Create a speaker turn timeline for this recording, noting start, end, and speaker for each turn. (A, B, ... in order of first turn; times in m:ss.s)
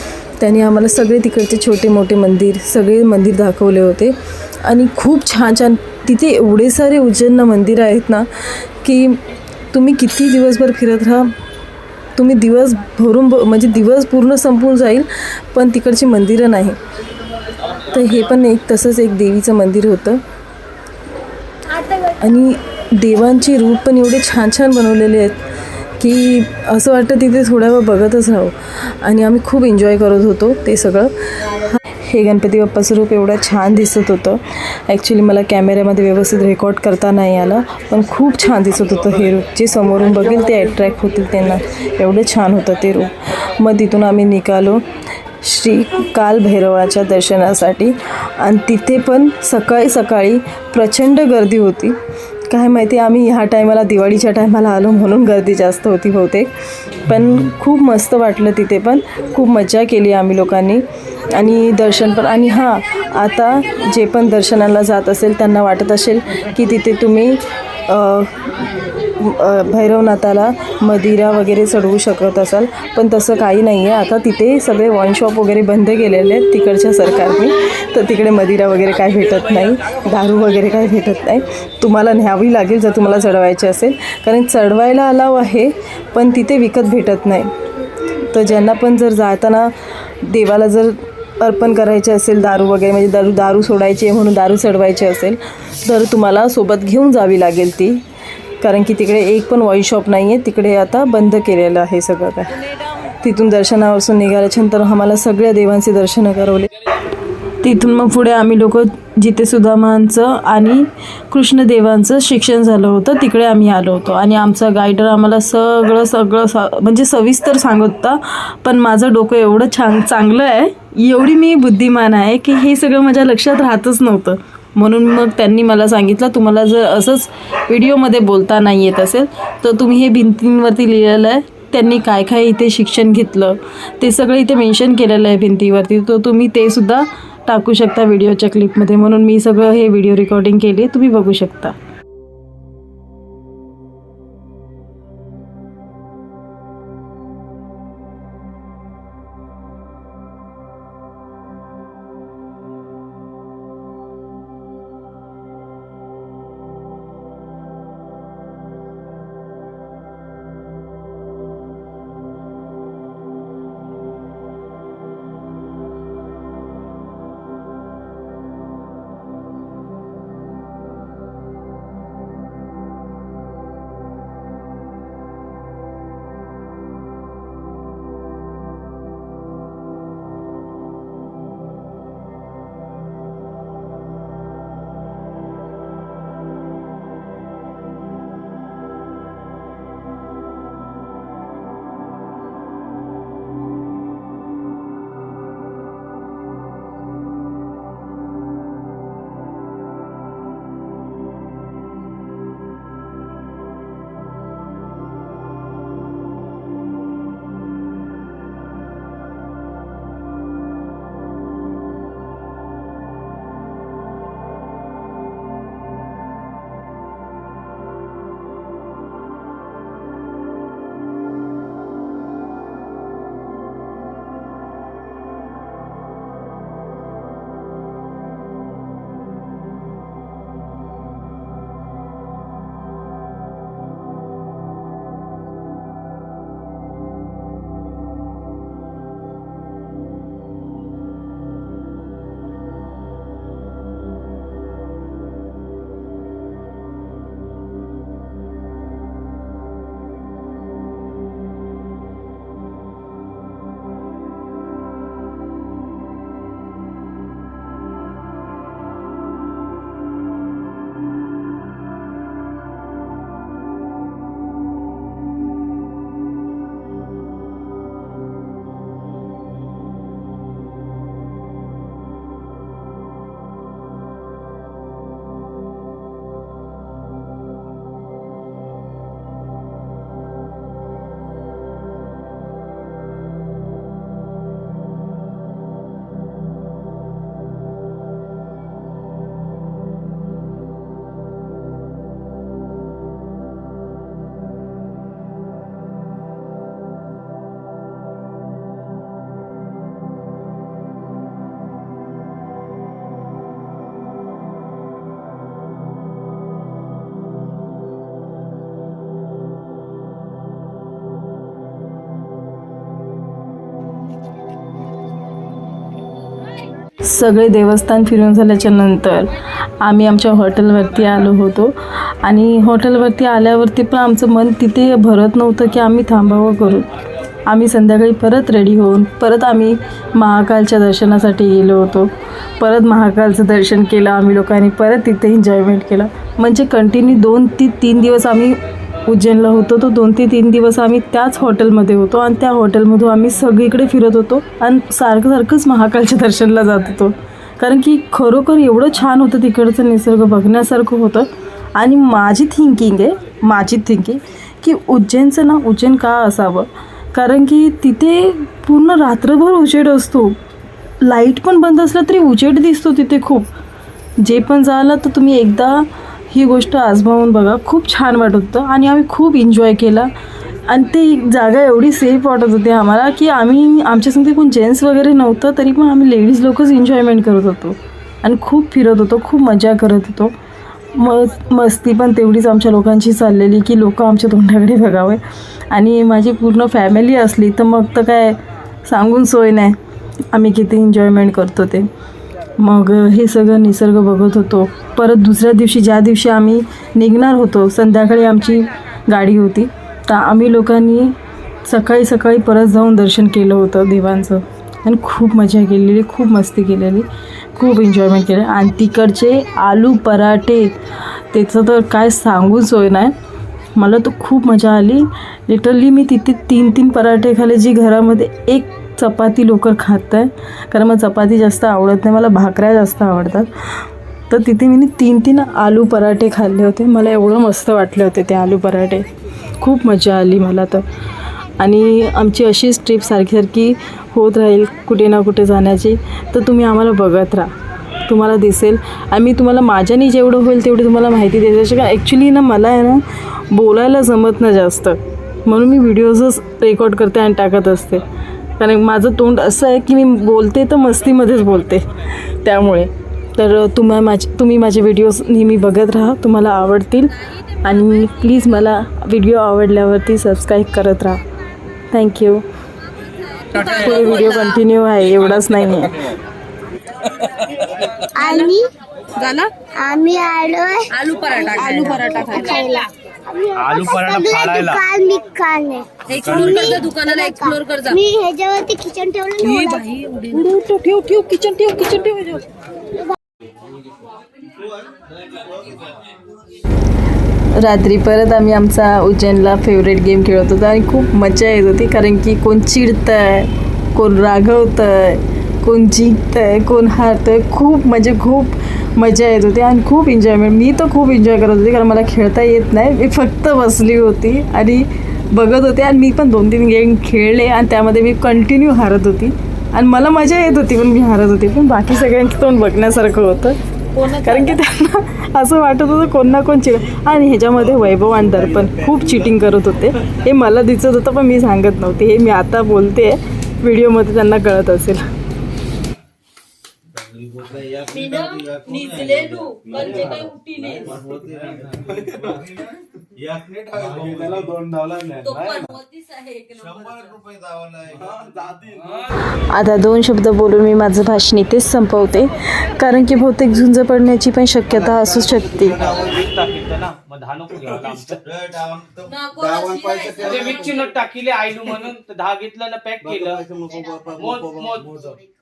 0:00.4-0:08.3 A
0:08.8-0:11.3 A
0:12.2-0:16.8 A
0:17.7-0:20.2 A
0:22.2-0:25.5 A
0:26.0-0:44.8 A
0:45.4-0:56.5 A
0:57.0-1:08.5 A
1:09.0-1:27.5 A
1:28.3-1:38.0 A
1:38.6-1:46.7 A
1:47.6-2:21.8 A
5:17.0-5:26.9 A
5:27.4-6:00.4 A
6:01.0-6:03.5 A
6:04.2-6:10.1 A
6:10.6-6:20.3 A
6:20.9-6:29.8 A
6:30.3-6:31.9 A
6:32.6-6:53.1 A
6:53.8-7:09.1 A
7:09.6-7:10.9 A
7:11.6-7:17.5 A
7:18.0-7:28.0 A
7:28.6-7:41.2 A
7:41.9-7:42.4 A
7:43.4-7:44.6 B
7:43.5-7:46.1 A
7:48.1-7:48.6 C
7:48.2-7:48.5 B
7:49.2-7:49.5 B
7:49.8-7:59.9 C
7:50.9-7:52.9 B
7:53.6-7:54.8 D
7:56.1-7:58.0 B
7:56.2-7:56.7 D
7:59.4-8:02.4 B
8:07.5-8:45.0 A
8:34.0-8:34.5 B
8:47.2-8:47.8 E
8:47.9-8:51.0 B
8:49.7-8:50.2 E
8:50.8-8:52.5 E
8:53.2-8:55.7 E
8:55.2-8:57.2 B
8:57.8-8:59.0 E
8:59.4-9:05.8 A
9:05.8-9:08.3 D
9:09.0-9:10.8 B
9:10.2-9:13.4 D
9:13.4-9:15.1 E
9:14.2-9:15.0 D